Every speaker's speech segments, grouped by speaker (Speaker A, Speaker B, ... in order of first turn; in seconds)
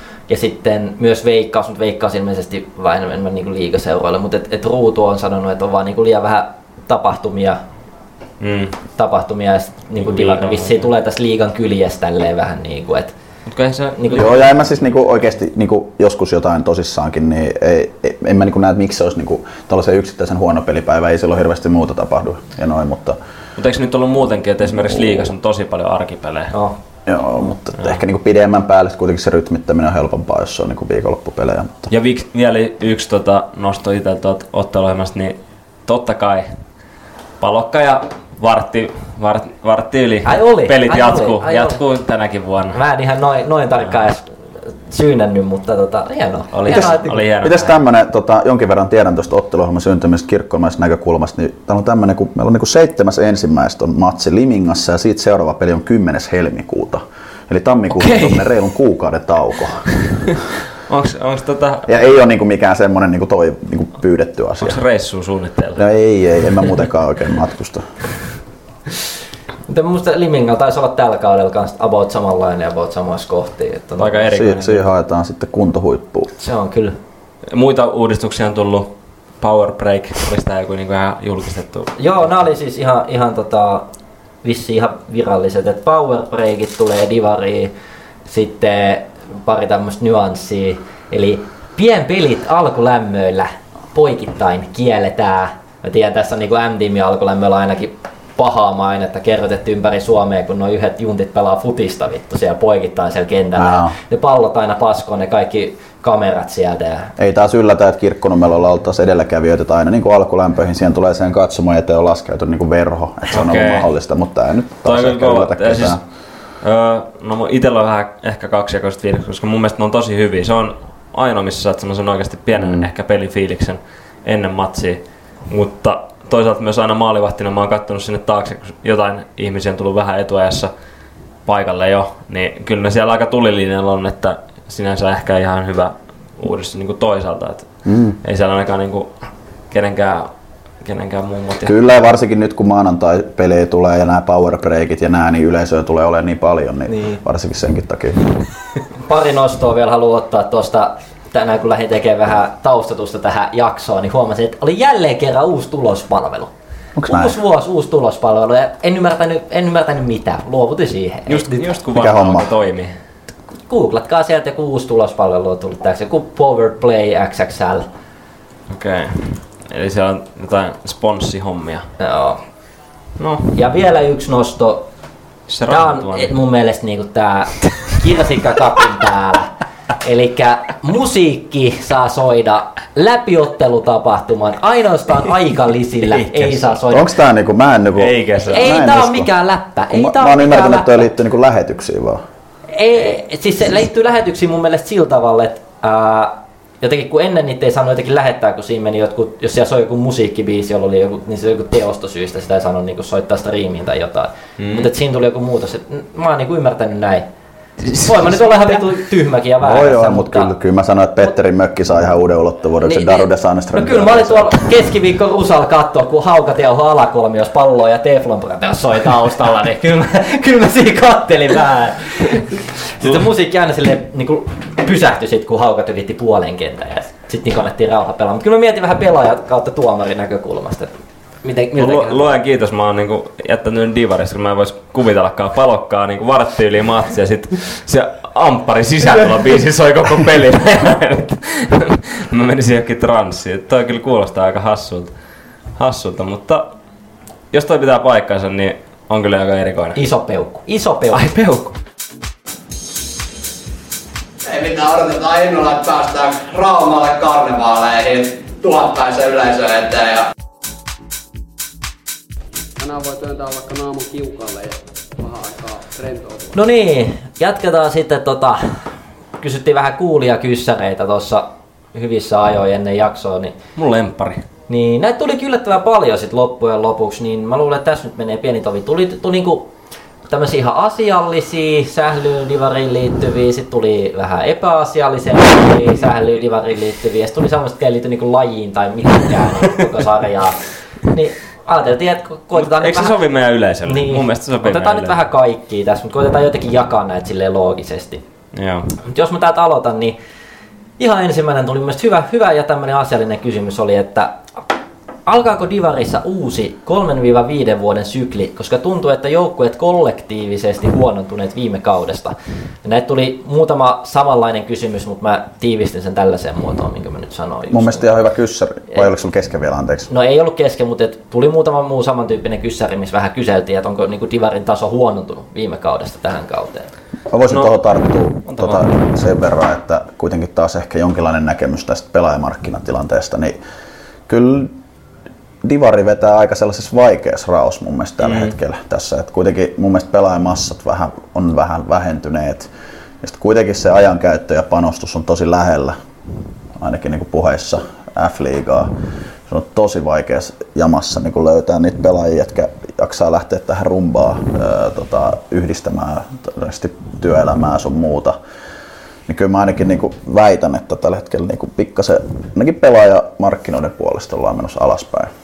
Speaker A: 0.3-7.6, 9.0-13.1, 14.0-14.3, 40.2-41.8, 42.7-47.2, 69.7-74.2, 76.4-77.0, 82.0-83.9, 84.4-87.7, 88.3-107.1, 149.1-156.5, 157.1-161.7, 163.7-167.8, 172.0-172.4, 173.6-174.9, 175.7-179.5, 180.0-187.1, 188.4-191.1, 192.7-207.3, 208.0-210.5, 212.8-232.3, 250.0-251.2, 266.5-273.6, 274.7-279.7, 280.3-293.2, 293.9-298.2, 299.0-300.2, 301.0-304.5, 305.3-318.2, 320.1-326.9
Speaker B: 8.4-8.8, 10.0-10.9, 13.5-14.5, 23.6-26.5, 31.9-36.6, 37.4-42.8, 46.5-47.8, 57.9-58.6, 60.9-62.1, 64.6-65.8, 74.0-74.9, 77.5-82.0, 113.3-113.9, 114.8-130.7, 131.4-140.3, 140.8-141.8, 146.9-147.2, 161.3-162.9, 168.7-171.9, 173.2-173.6, 175.5-176.3, 186.1-186.7, 188.0-188.7, 204.6-204.9, 207.8-208.9, 231.8-245.2, 245.7-246.7, 247.5-250.0, 251.1-251.8, 273.8-274.4, 292.5-295.2, 298.5-299.0, 327.5-329.0, 338.2-338.5
Speaker C: 14.1-23.2, 24.8-25.3, 27.1-31.9, 47.4-59.9, 61.9-64.8, 65.8-68.0, 74.3-76.3, 103.6-103.9, 107.2-116.0, 122.5-122.9, 137.8-138.2, 141.6-148.2, 156.9-157.4, 161.9-162.5, 186.9-189.3, 189.9-192.2, 209.6-214.6, 317.7-320.1, 327.3-333.6, 334.3-334.7, 335.6-342.7, 343.2-346.0, 346.8-348.9, 349.5-358.4, 359.3-365.3
Speaker D: 254.4-260.3
Speaker E: 262.8-266.6